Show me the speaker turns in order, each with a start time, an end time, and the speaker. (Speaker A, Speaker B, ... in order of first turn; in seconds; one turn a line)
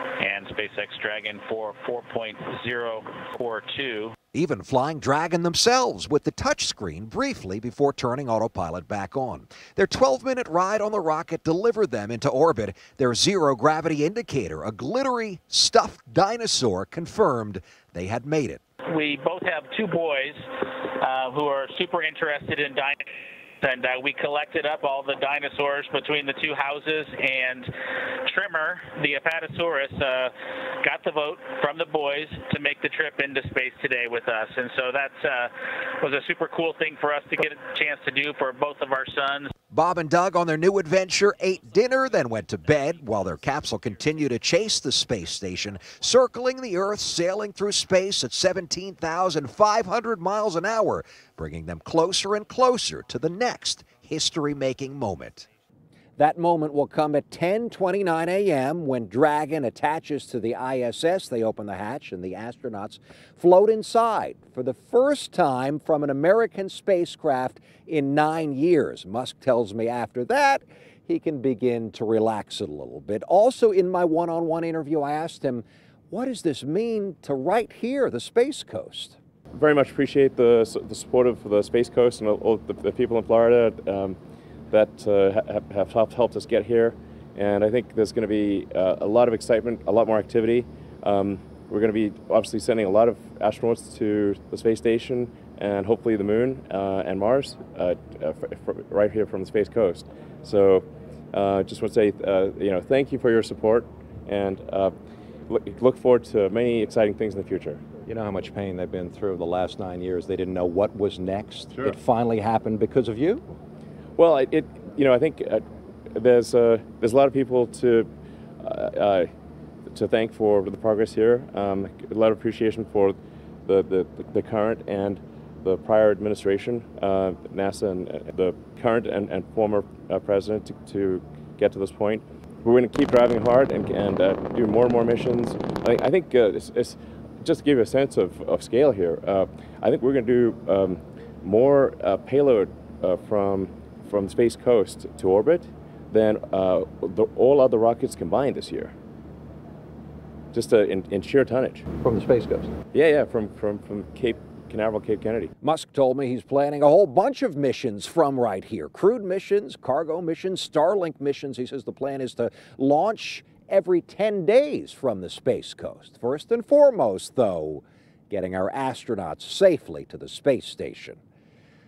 Speaker A: 0.2-4.1
Speaker B: 4.3-18.6
Speaker A: 18.9-20.4
Speaker A: 21.0-23.0
Speaker A: 23.6-27.7
Speaker A: 28.3-30.3
Speaker A: 30.8-39.5
Speaker B: 39.7-55.5
Speaker B: 56.2-79.2
Speaker C: 79.5-84.2
Speaker C: 84.7-104.9
Speaker C: 105.5-107.8
Speaker B: 108.0-113.4
Speaker C: 114.2-118.1
Speaker C: 118.6-119.3
Speaker C: 119.9-148.9
Speaker C: 150.5-151.8
Speaker B: 152.0-152.7
Speaker C: 152.9-155.5
Speaker B: 155.6-171.2